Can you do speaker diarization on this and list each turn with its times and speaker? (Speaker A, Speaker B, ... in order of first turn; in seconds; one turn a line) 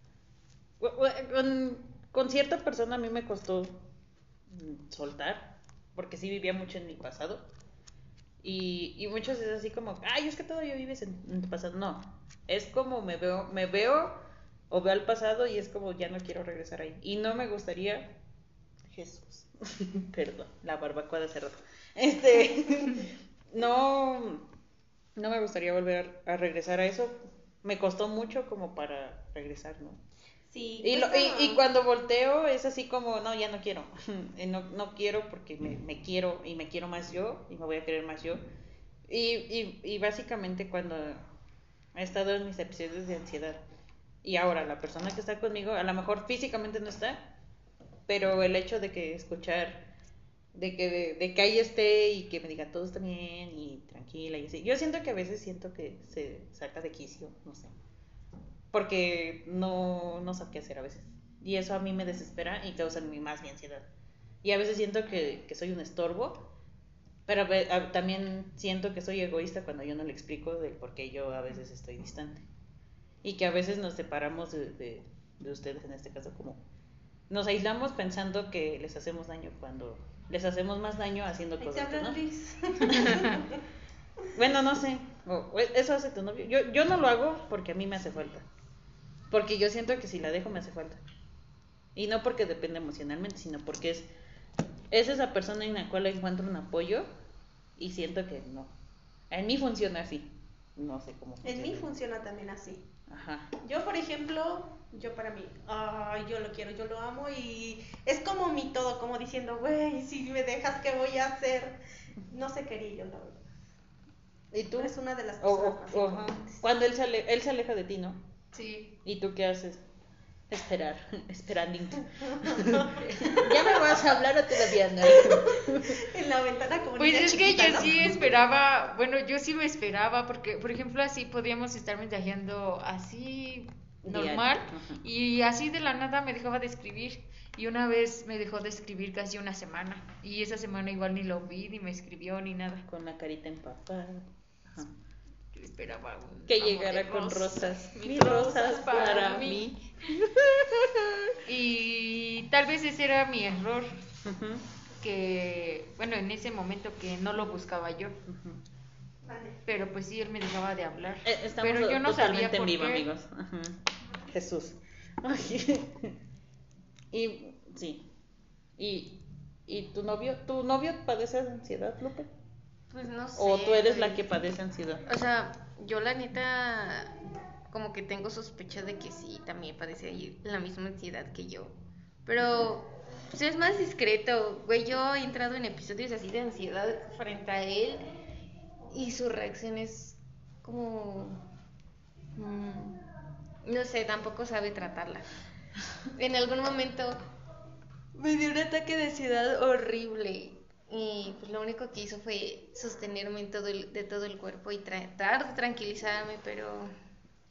Speaker A: 0.8-3.9
Speaker A: 4.5-7.5
Speaker A: 8.4-18.2
Speaker A: 18.9-24.5
Speaker A: 25.2-30.0
Speaker B: 30.5-31.6
Speaker A: 30.8-38.4
Speaker A: 39.1-41.2
Speaker A: 42.0-43.6
Speaker A: 44.2-47.3
Speaker A: 48.1-49.9
Speaker A: 50.5-57.7
Speaker A: 58.7-63.9
Speaker A: 64.4-66.5
Speaker A: 67.3-72.5
Speaker A: 73.2-76.6
Speaker A: 77.3-82.2
Speaker B: 81.6-83.6
Speaker A: 82.9-83.3
Speaker A: 84.3-88.5
Speaker A: 89.3-91.0
Speaker A: 92.0-94.1
Speaker A: 94.9-97.1
Speaker A: 97.8-98.7
Speaker A: 99.3-101.9
Speaker B: 101.4-102.9
Speaker A: 103.1-103.5
Speaker B: 103.6-113.4
Speaker A: 114.5-118.2
Speaker B: 114.8-116.6
Speaker C: 118.5-118.9
Speaker A: 119.0-119.8
Speaker A: 120.5-126.0
Speaker B: 122.3-123.6
Speaker B: 125.0-128.1
Speaker C: 127.0-142.8
Speaker A: 134.0-135.0
Speaker A: 142.9-144.9
Speaker C: 145.5-149.7
Speaker A: 146.5-151.4
Speaker C: 151.5-153.9
Speaker A: 154.2-154.7
Speaker C: 155.0-158.2
Speaker A: 158.3-158.6
Speaker B: 159.2-159.6
Speaker C: 159.7-163.1
Speaker A: 161.2-166.2
Speaker A: 167.1-168.1
Speaker A: 168.8-172.3
Speaker D: 172.9-174.3
Speaker A: 173.4-175.1
Speaker D: 175.1-177.2
Speaker D: 177.7-188.1
Speaker A: 182.4-182.7
Speaker D: 188.9-191.4
Speaker D: 192.3-193.0
Speaker D: 193.6-195.3
Speaker D: 196.1-197.2
Speaker D: 198.2-206.9